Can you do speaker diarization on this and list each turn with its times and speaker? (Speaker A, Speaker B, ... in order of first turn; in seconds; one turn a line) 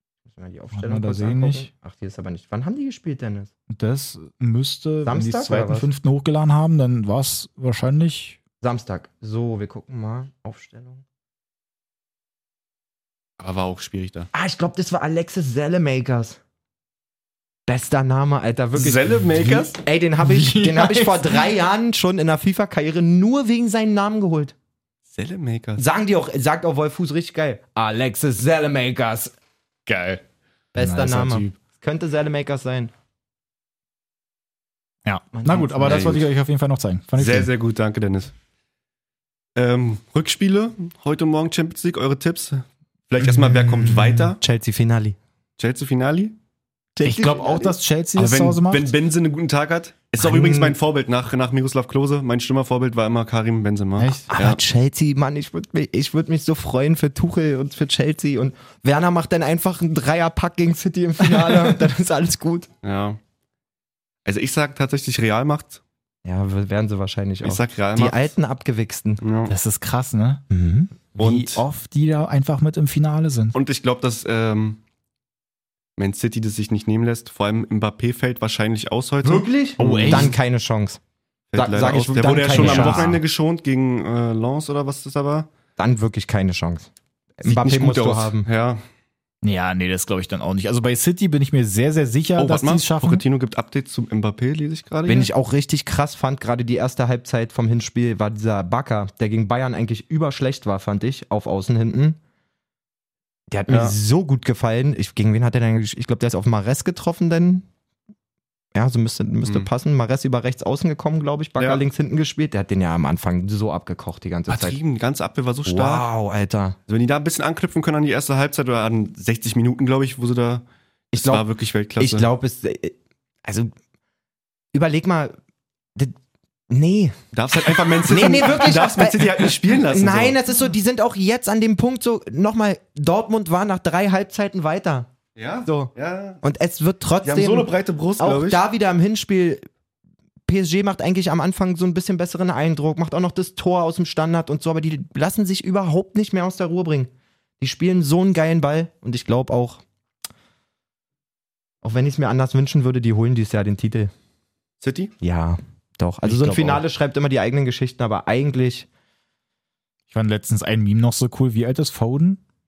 Speaker A: 0.3-3.5
Speaker B: 0.7-1.7
Speaker B: 3.7-8.4
Speaker A: 5.0-5.9
Speaker A: 8.6-11.0
Speaker C: 13.4-14.3
Speaker A: 14.3-16.4
Speaker A: 17.7-24.5
Speaker C: 18.7-19.8
Speaker B: 19.4-19.6
Speaker B: 20.2-21.5
Speaker C: 25.1-25.8
Speaker A: 25.8-29.3
Speaker C: 29.9-30.2
Speaker A: 30.7-32.9
Speaker B: 30.8-31.6
Speaker B: 35.0-37.5
Speaker A: 35.3-36.2
Speaker C: 35.8-36.2
Speaker C: 37.1-38.3
Speaker C: 39.5-44.4
Speaker A: 44.4-45.1
Speaker C: 45.6-46.4
Speaker A: 47.0-47.7
Speaker B: 47.0-48.9
Speaker C: 48.1-54.6
Speaker A: 50.2-50.8
Speaker B: 54.0-54.3
Speaker A: 54.3-62.7
Speaker C: 62.8-63.2
Speaker C: 64.2-65.8
Speaker A: 66.2-69.2
Speaker C: 67.4-68.3
Speaker C: 69.2-69.5
Speaker B: 69.5-70.4
Speaker A: 70.5-70.9
Speaker B: 71.1-73.5
Speaker C: 71.2-71.6
Speaker C: 73.5-74.8
Speaker C: 76.0-80.3
Speaker A: 79.2-81.0
Speaker B: 79.8-80.3
Speaker C: 81.5-85.5
Speaker A: 81.5-83.2
Speaker B: 82.5-83.2
Speaker A: 85.8-88.5
Speaker C: 87.4-88.8
Speaker B: 89.4-93.2
Speaker C: 92.4-95.3
Speaker A: 95.1-102.2
Speaker A: 103.5-107.7
Speaker C: 103.7-103.9
Speaker A: 108.7-114.8
Speaker C: 114.5-116.0
Speaker A: 115.7-116.8
Speaker C: 116.9-122.3
Speaker A: 121.1-121.5
Speaker A: 122.0-123.7
Speaker A: 124.7-125.3
Speaker A: 126.7-127.2
Speaker C: 127.3-130.4
Speaker A: 128.0-135.1
Speaker C: 135.3-136.4
Speaker A: 135.6-139.6
Speaker C: 137.2-138.6
Speaker A: 140.5-149.8
Speaker A: 151.8-154.1
Speaker C: 154.8-155.1
Speaker A: 155.2-158.9
Speaker B: 156.2-156.8
Speaker B: 160.1-162.4